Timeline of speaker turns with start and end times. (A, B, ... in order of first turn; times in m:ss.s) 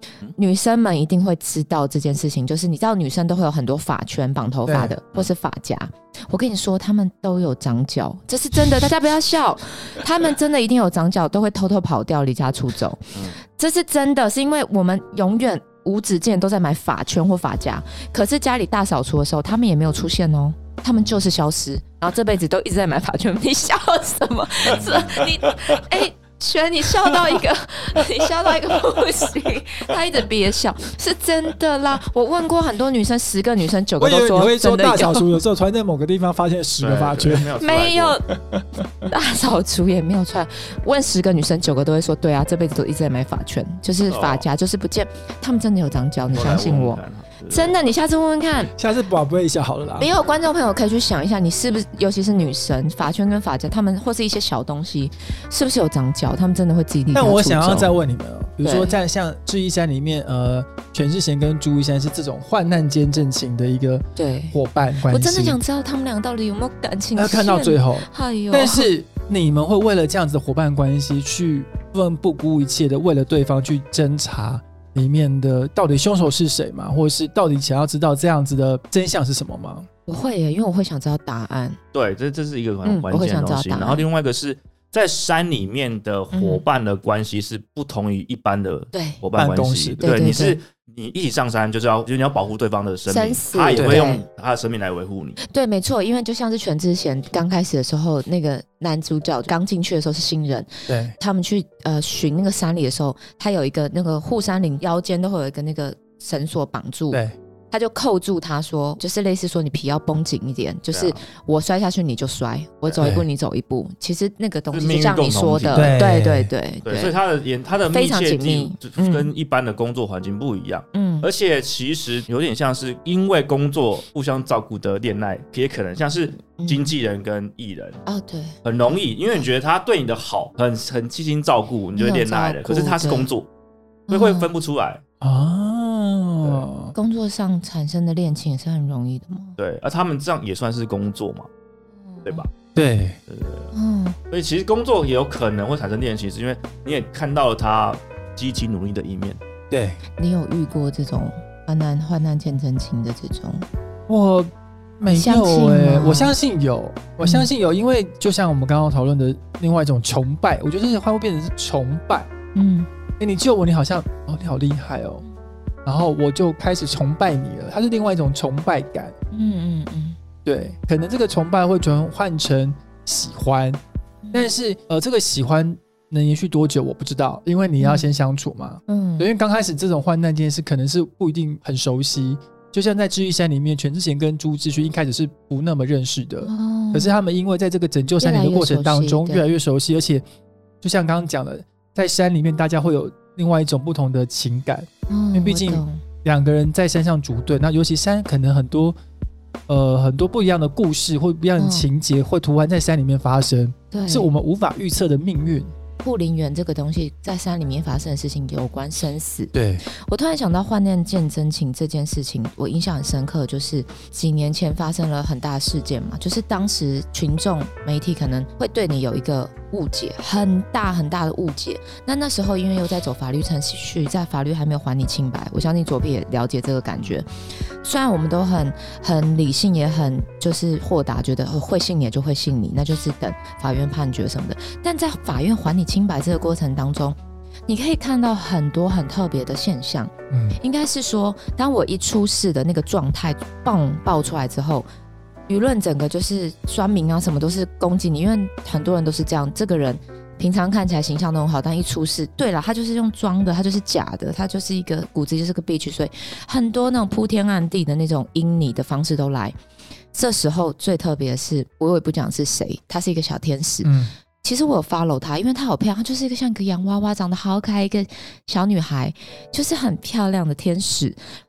0:00.4-0:35.4 A
0:04.7-0:05.0 B
0:24.6-0:25.2 C
0:25.2-0:25.8 B
0:34.0-0:37.5 B
0:36.8-0:38.2 C
0:37.6-0:38.2 A
0:38.4-0:38.9 B
0:39.1-0:48.7 A
0:44.1-0:44.4 C
0:46.3-0:47.8 C
0:48.8-0:50.1 B
0:50.0-0:57.9 A
0:57.1-1:05.6 B
0:58.6-0:59.0 A
1:04.2-1:04.6 A
1:05.1-1:08.9 A
1:07.2-1:19.9 B
1:20.1-1:21.8 A
1:21.9-1:35.4 C
1:22.8-1:24.0 A
1:26.3-1:26.6 A
1:28.9-1:29.2 A
1:29.4-1:30.1 B
1:30.0-1:30.6 A
1:33.1-1:34.2 A
1:33.8-1:34.1 B
1:35.4-1:57.2 A
1:40.9-1:41.2 B
1:50.9-1:51.2 C
1:54.7-1:56.0 C
1:55.7-1:56.5 B
1:56.8-2:08.0 C
1:57.9-1:59.3 A
2:00.9-2:01.3 A
2:06.6-2:06.9 A
2:08.1-2:08.6 A
2:08.6-2:13.5 C
2:12.0-2:13.3 A
2:14.1-2:14.5 A
2:14.1-2:15.0 C
2:15.2-2:16.9 B
2:16.9-2:19.6 A
2:19.6-2:21.5 C
2:22.1-2:22.4 A
2:22.3-2:22.5 C
2:22.8-2:23.2 B
2:23.3-2:23.7 C
2:23.7-2:24.2 A
2:24.3-2:29.4 C
2:29.7-2:30.0 B
2:30.2-2:33.7 A
2:34.1-2:42.3 B
2:35.1-2:36.3 A
2:37.2-2:37.5 A
2:42.6-2:42.9 A
2:43.2-2:45.2 B
2:45.8-2:49.1 B
2:49.3-2:50.2 A
2:50.4-2:53.8 B
2:54.2-2:54.5 A
2:54.3-3:10.2 B
2:57.8-2:58.1 A
2:58.9-2:59.3 A
3:06.4-3:07.1 A
3:08.2-3:09.5 A
3:10.8-3:19.0 B
3:15.1-3:16.0 A
3:19.7-3:25.7 B
3:21.6-3:21.9 A
3:23.9-3:24.3 A
3:26.0-3:47.3 A
3:29.5-3:29.8 B
3:47.8-4:04.9 A
4:00.3-4:00.6 B
4:05.5-4:19.6 A
4:20.1-4:31.2 A
4:23.8-4:24.1 B